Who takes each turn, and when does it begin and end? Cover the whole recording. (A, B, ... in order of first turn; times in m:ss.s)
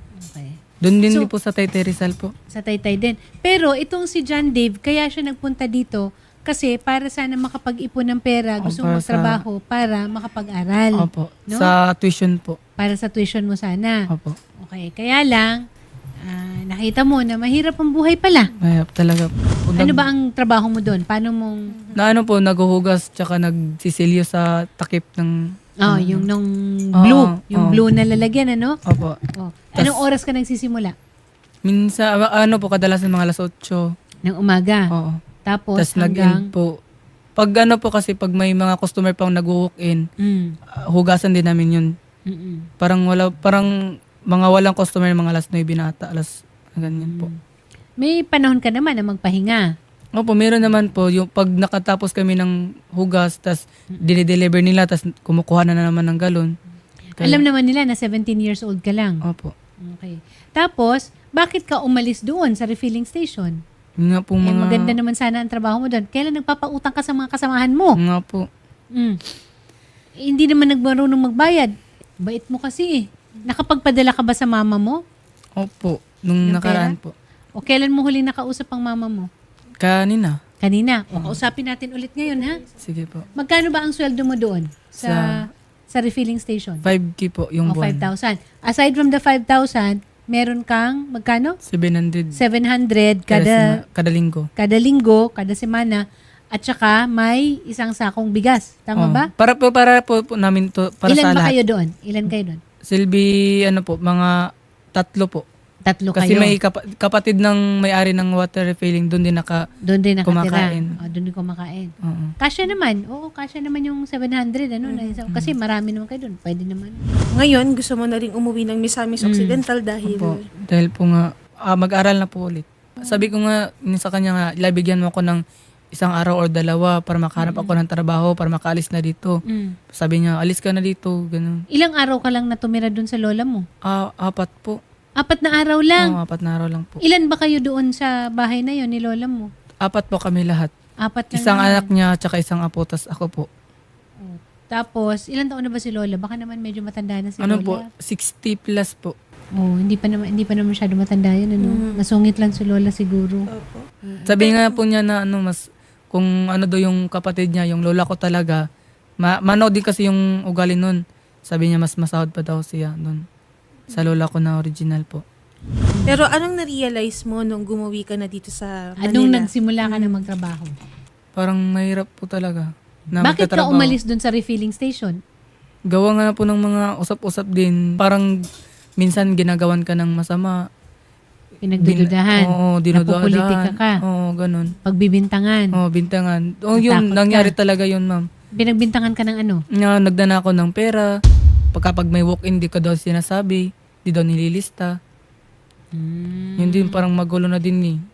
0:00.2-0:01.3 A
0:00.8-0:02.3 B
0:02.5-0:11.7 A
0:08.6-0:09.4 B
0:11.0-0:12.6 B
0:12.8-0:14.0 A
0:14.1-0:14.4 B
0:14.6-0:15.6 A
0:16.2-0:18.5 A
0:18.6-0:20.0 B
0:19.8-0:21.7 A
0:21.7-0:22.0 C
0:22.0-0:26.3 B
0:25.8-0:28.8 A
0:27.0-0:27.8 B
0:28.9-0:29.2 B
0:29.4-0:30.9 A
0:31.7-0:33.9 B
0:34.2-0:34.9 A
0:34.9-0:35.2 B
0:35.4-0:36.5 A
0:35.8-0:36.7 B
0:37.4-0:40.0 B
0:40.2-0:40.6 A
0:40.9-0:41.9 B
0:42.3-0:42.7 A
0:42.8-0:43.7 B
0:44.3-0:47.3 B
0:46.9-0:47.4 A
0:48.0-0:49.7 A
0:50.2-0:56.5 B
0:57.2-0:57.4 B
0:57.2-0:59.2 A
0:59.3-0:59.5 B
0:59.8-1:03.6 A
1:04.0-1:05.0 B
1:04.4-1:08.0 A
1:08.0-1:08.5 B
1:08.9-1:09.2 A
1:10.2-1:11.7 A
1:12.2-1:15.0 A
1:15.6-1:17.1 B
1:16.4-1:17.0 A
1:17.6-1:19.3 A
1:19.8-1:20.4 B
1:20.6-1:22.6 A
1:22.8-1:23.3 B
1:23.4-1:26.9 A
1:25.0-1:25.4 B
1:26.8-1:28.1 B
1:27.7-1:31.6 A
1:31.7-1:32.4 B
1:32.4-1:33.8 A
1:33.3-1:34.5 B
1:34.6-1:39.3 A
1:39.0-1:41.5 B
1:41.1-1:42.6 A
1:42.9-1:44.4 B
1:45.0-1:45.4 B
1:45.9-1:46.6 A
1:46.2-1:49.6 B
1:49.8-1:57.0 A
1:50.2-1:50.9 B
1:52.0-1:52.3 B
1:54.8-1:55.2 C
1:57.3-2:00.4 C
1:59.3-1:59.6 A
2:00.0-2:05.4 B
2:05.9-2:09.4 B
2:07.4-2:07.7 A
2:09.5-2:09.8 A
2:09.9-2:11.6 B
2:11.7-2:13.6 A
2:13.9-2:14.8 B
2:15.2-2:16.2 A
2:16.0-2:17.0 B
2:17.0-2:19.5 A
2:19.8-2:20.7 B
2:21.0-2:21.9 A
2:21.3-2:23.5 B
2:24.2-2:27.8 A
2:27.4-2:29.2 B
2:29.6-2:33.5 A
2:31.6-2:32.0 C
2:33.5-2:33.9 C
2:34.0-2:34.4 A
2:34.3-2:38.6 B
2:34.4-2:34.7 C
2:39.2-2:43.2 B
2:43.9-2:45.2 B
2:45.9-2:46.2 A
2:46.1-2:50.3 C
2:49.0-2:50.7 A
2:51.4-2:54.0 B
2:53.2-2:55.2 A
2:55.9-2:58.3 B
2:59.0-3:00.6 B
3:01.6-3:04.0 A
3:01.8-3:04.8 B
3:04.8-3:05.7 A
3:05.8-3:08.2 B
3:06.8-3:07.5 A
3:08.6-3:09.6 A
3:09.8-3:11.1 B
3:11.7-3:14.9 B
3:15.9-3:17.0 A
3:16.6-3:18.0 B